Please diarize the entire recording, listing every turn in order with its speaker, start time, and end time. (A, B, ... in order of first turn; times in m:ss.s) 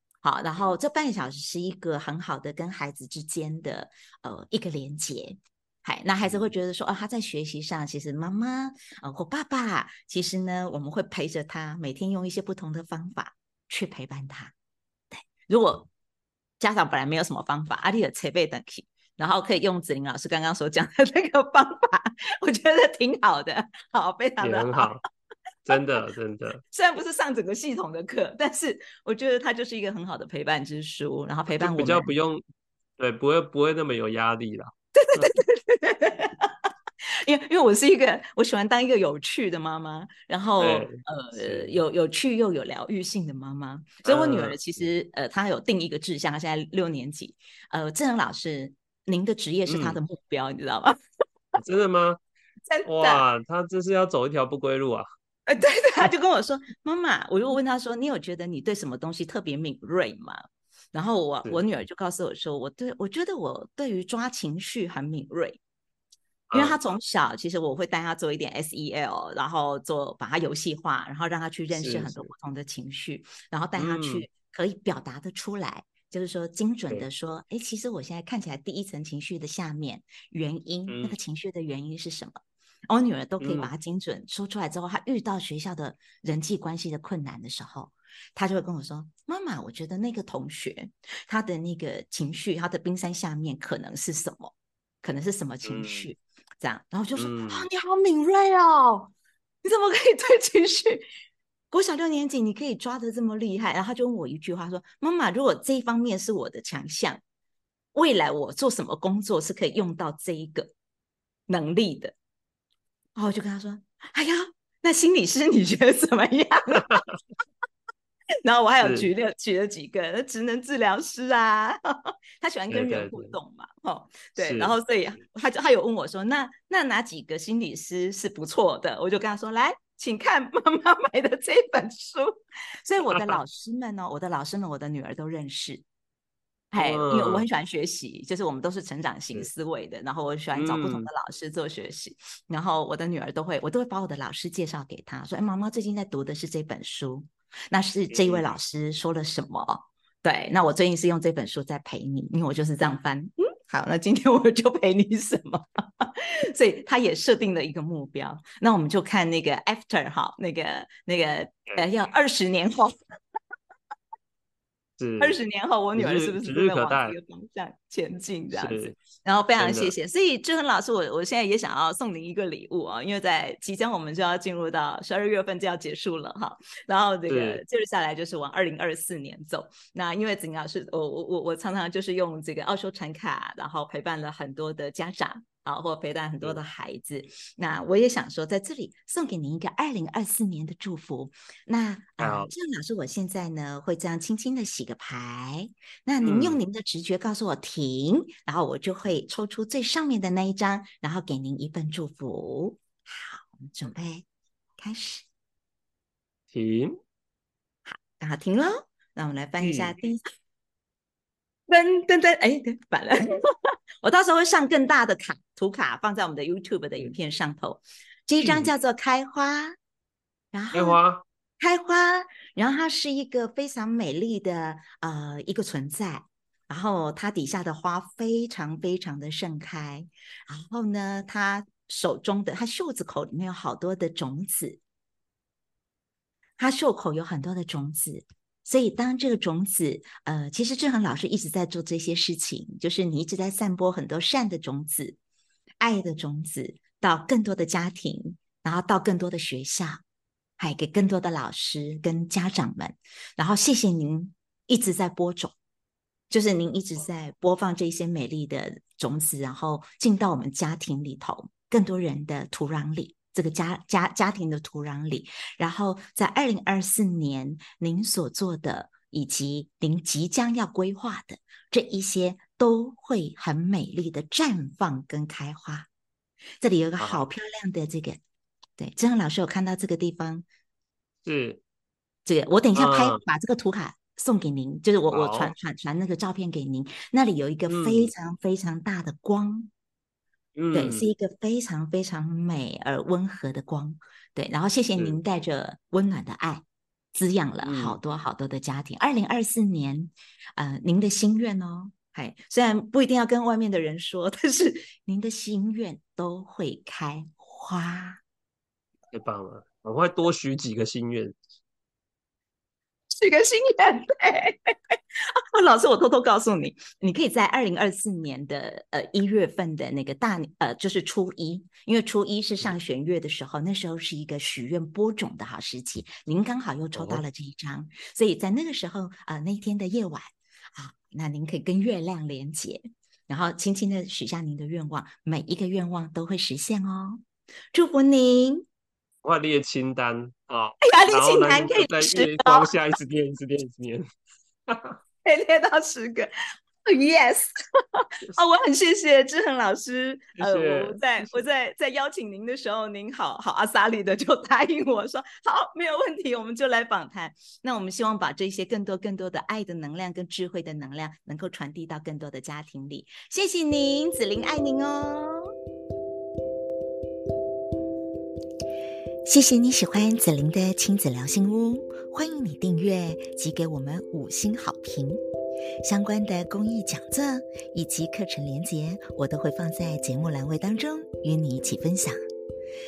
0:00.2-0:14.5 A
0:06.2-0:06.5 B
0:15.1-0:15.9 A
0:16.6-0:24.9 A
0:24.4-0:25.0 B
0:25.6-0:26.6 B
0:26.7-0:32.1 A
0:31.6-0:32.4 B
0:33.0-0:35.4 B
0:34.9-0:36.7 A
0:37.2-0:50.9 A
0:40.6-0:41.8 B
0:44.0-0:44.9 B
0:49.7-0:50.0 B
0:51.5-0:52.2 B
0:52.7-0:53.2 A
0:52.8-0:55.1 B
0:55.5-1:00.4 A
1:00.9-1:05.6 A
1:06.5-1:06.8 B
1:06.5-1:39.1 A
1:11.7-1:12.3 B
1:13.8-1:14.2 B
1:20.9-1:21.2 B
1:23.4-1:23.7 B
1:35.6-1:36.1 B
1:37.2-1:37.7 B
1:39.6-1:41.1 A
1:41.7-1:47.2 A
1:47.9-1:50.7 A
1:51.5-1:52.1 A
1:53.2-1:57.0 A
1:56.8-1:57.2 B
1:58.4-2:12.3 A
1:58.8-1:59.1 B
2:02.7-2:03.3 B
2:04.4-2:04.8 B
2:12.8-2:15.8 A
2:13.1-2:13.4 B
2:16.7-2:42.9 A
2:16.8-2:17.4 B
2:20.5-2:21.1 B
2:28.1-2:28.6 B
2:45.0-2:45.4 B
2:45.2-3:24.2 A
2:45.9-2:47.1 B
2:48.5-2:49.0 B
2:49.6-2:49.9 B
2:57.3-2:57.6 B
3:12.2-3:12.5 B
3:16.2-3:16.6 B
3:24.8-3:25.3 A
3:26.5-3:27.0 B
3:27.9-3:30.2 A
3:29.6-3:29.9 B
3:31.7-3:39.8 A
3:38.4-3:38.7 B
3:40.5-3:41.0 A
3:40.7-3:41.2 B
3:41.6-3:54.8 A
3:56.6-4:05.2 A
4:05.8-4:10.0 A
4:10.6-4:15.5 A
4:16.3-4:35.9 A
4:36.6-4:38.2 A
4:37.0-4:37.3 B
4:38.8-4:40.4 A
4:41.2-4:41.6 B
4:42.2-4:49.7 A
4:42.7-4:43.2 B
4:45.1-4:45.5 B
4:47.7-4:48.1 B
4:50.6-4:51.1 B
4:50.7-5:08.2 A
4:57.6-4:58.0 B
5:09.1-5:11.4 B
5:13.1-5:37.2 A
5:26.9-5:27.2 B
5:37.7-5:38.6 A
5:39.2-5:44.0 B
5:40.8-5:42.7 A
5:44.7-5:45.0 B
5:45.2-5:46.3 A
5:46.8-6:05.4 A
5:50.4-5:51.4 B
6:09.2-6:15.2 A
6:15.8-6:22.2 A